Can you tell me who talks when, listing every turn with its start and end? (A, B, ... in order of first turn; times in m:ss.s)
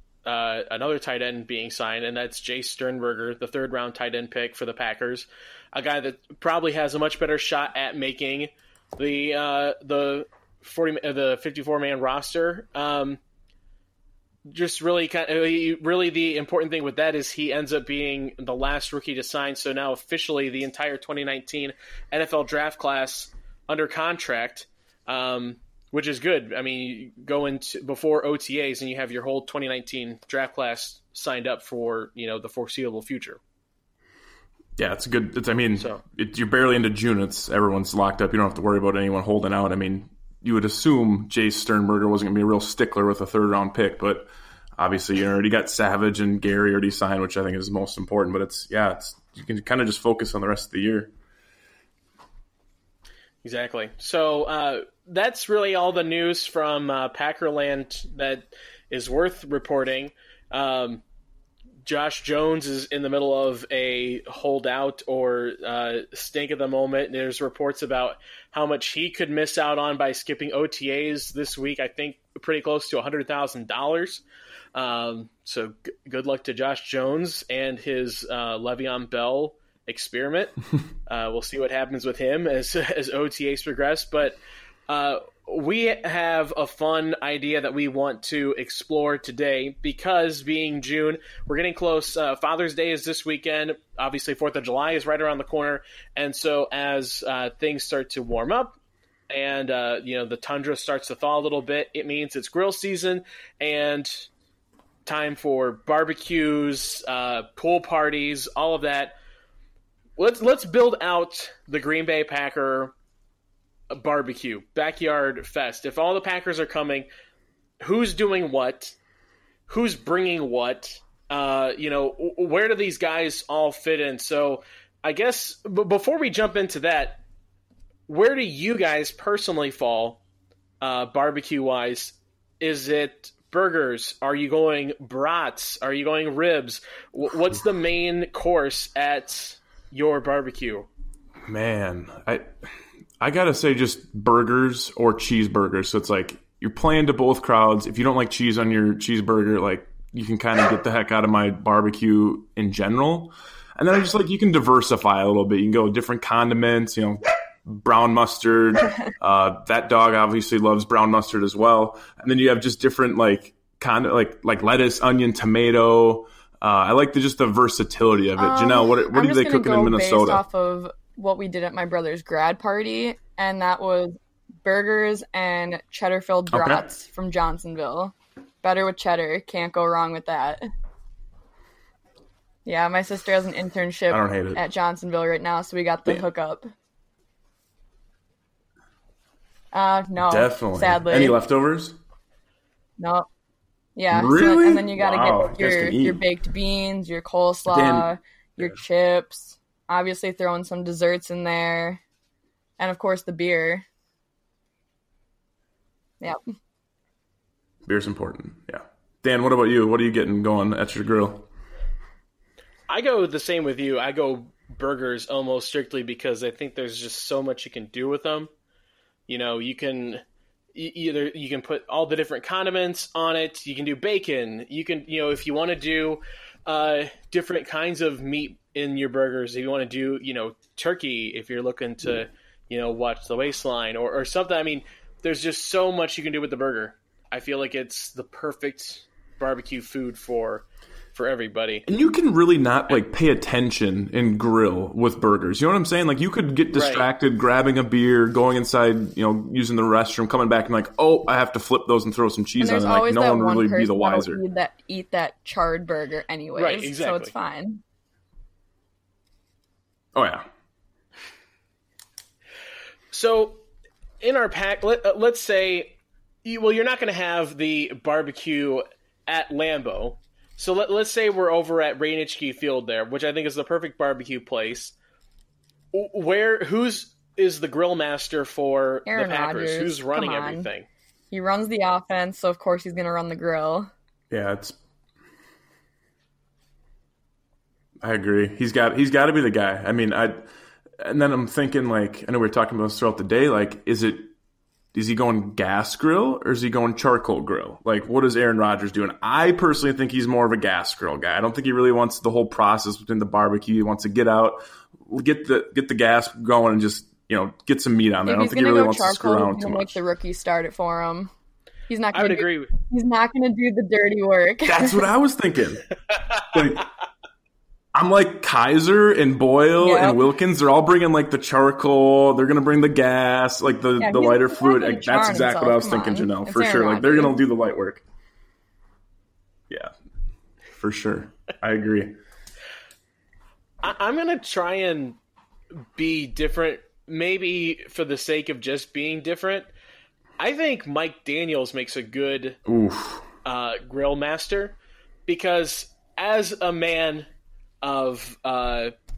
0:00.2-0:13.2 A
0:14.5-0:33.4 A
0:34.8-0:51.1 B
0:53.4-1:01.0 A
1:01.8-1:14.2 A
1:14.7-1:38.7 A
1:39.3-1:44.3 A
1:45.0-1:49.1 A
1:50.2-1:52.9 A
1:53.9-1:57.1 A
1:57.8-1:59.0 A
1:59.7-2:07.2 A
2:08.1-2:10.2 A
2:10.8-2:20.9 A
2:21.4-2:22.5 B
2:23.2-2:50.4 B
2:48.4-3:00.6 C
2:56.5-2:56.8 B
3:02.6-3:06.7 C
3:04.1-3:04.6 B
3:09.7-3:11.4 C
3:10.2-3:12.0 B
3:13.0-3:13.2 C
3:14.0-3:22.0 C
3:14.1-3:16.2 B
3:17.7-3:18.8 B
3:22.8-3:23.8 C
3:27.8-3:31.5 B
3:32.9-3:38.5 A
3:39.3-3:40.2 A
3:40.7-4:01.8 A
4:01.8-4:14.4 B
4:06.7-4:07.0 A
4:12.6-4:17.8 C
4:16.5-4:17.3 A
4:20.1-4:20.4 B
4:23.1-4:23.6 A
4:24.2-4:34.9 A
4:35.9-4:40.9 A
4:39.1-4:40.7 C
4:41.3-4:43.9 C
4:44.3-4:44.8 B
4:48.0-4:50.5 B
4:51.0-4:54.3 B
4:54.9-5:10.0 B
5:08.2-5:11.3 C
5:11.9-5:15.0 C
5:12.1-5:12.7 A
5:14.6-5:15.8 B
5:16.2-5:16.4 A
5:16.5-5:16.8 B
5:17.9-5:28.0 B
5:19.8-5:20.2 C
5:24.0-5:27.4 C
5:30.7-5:32.2 B
5:33.8-5:35.2 A
5:36.0-5:39.7 A
5:40.4-5:42.6 A
5:42.7-5:43.2 B
5:43.4-5:47.3 A
5:47.8-5:48.9 A